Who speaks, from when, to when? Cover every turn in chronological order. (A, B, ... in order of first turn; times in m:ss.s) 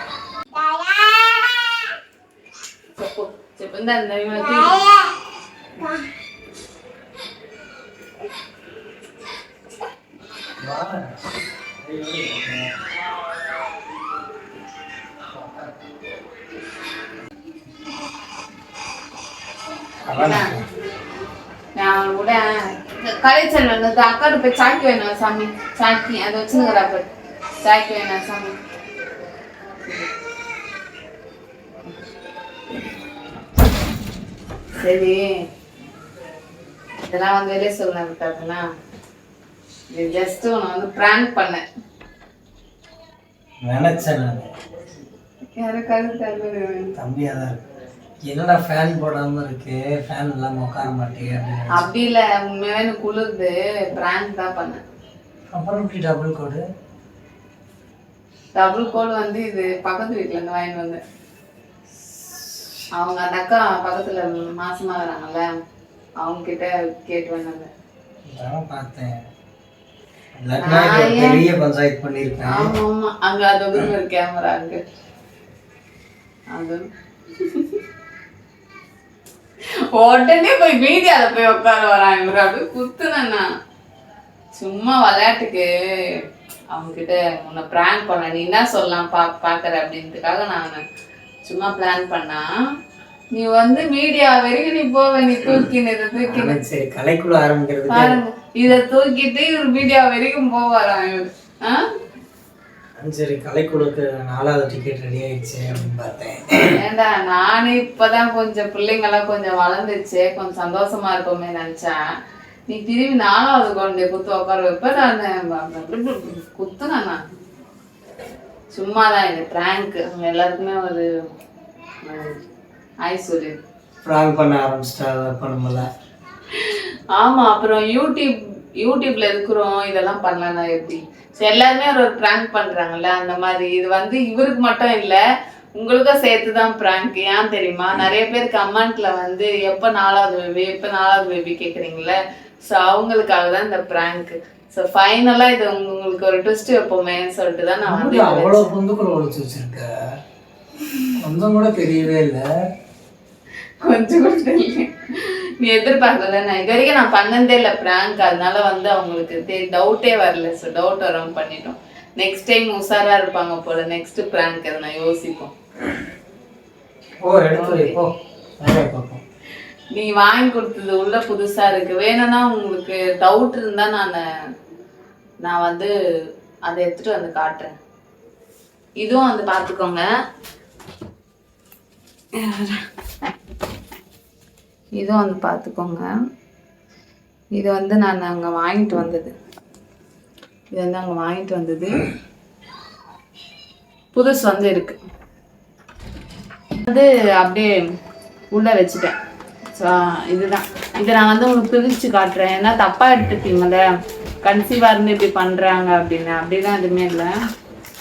0:03.0-0:05.0 A
0:10.6-0:12.7 B
0:15.3-0:15.7 B
0:20.1-0:20.6 B
0:20.2-0:20.6 A
0:21.8-0:27.1 A
0:27.6-0:28.6 A
0:34.8-0:35.3 A
0:37.0-0:38.6 A
0:39.9-0:41.6 A
0:43.6-0:44.5 B
0:45.6-0:47.0 A
0:47.0-0:47.6 B
0:48.3-0:51.9 B
0:51.7-0:54.8 A
0:55.5-0:56.6 B
0:58.5-1:01.0 A
1:03.0-1:05.4 A
1:06.2-1:07.7 A
1:08.3-1:09.2 B
1:10.4-1:12.7 B
1:10.6-1:11.4 A
1:12.5-1:14.8 A
1:16.5-1:16.8 A
1:17.4-1:17.8 A
1:19.9-1:23.4 A
1:24.6-1:26.2 A
1:26.7-1:30.8 A
1:31.4-1:32.4 A
1:33.3-1:36.6 A
1:36.2-1:38.2 B
1:37.9-1:41.8 A
1:43.0-1:46.8 B
1:46.7-1:52.0 A
1:52.7-1:57.2 A
1:58.7-2:01.1 A
2:02.0-2:02.4 A
2:03.0-2:03.5 A
2:04.0-2:05.9 B
2:06.5-2:15.2 A
2:15.8-2:28.7 A
2:27.8-2:29.9 B
2:31.2-2:32.4 B
2:33.8-2:45.5 A
2:47.2-2:49.2 B
2:47.5-2:48.0 A
2:49.9-2:54.2 A
2:55.4-2:55.9 A
2:56.6-2:57.7 A
2:59.0-3:00.1 A
3:02.3-3:02.8 A
3:05.0-3:06.1 A
3:07.5-3:09.3 A
3:10.7-3:12.1 A
3:14.1-3:15.0 A
3:16.8-3:17.8 A
3:18.5-3:19.2 A
3:19.8-3:23.8 A
3:24.4-3:27.3 A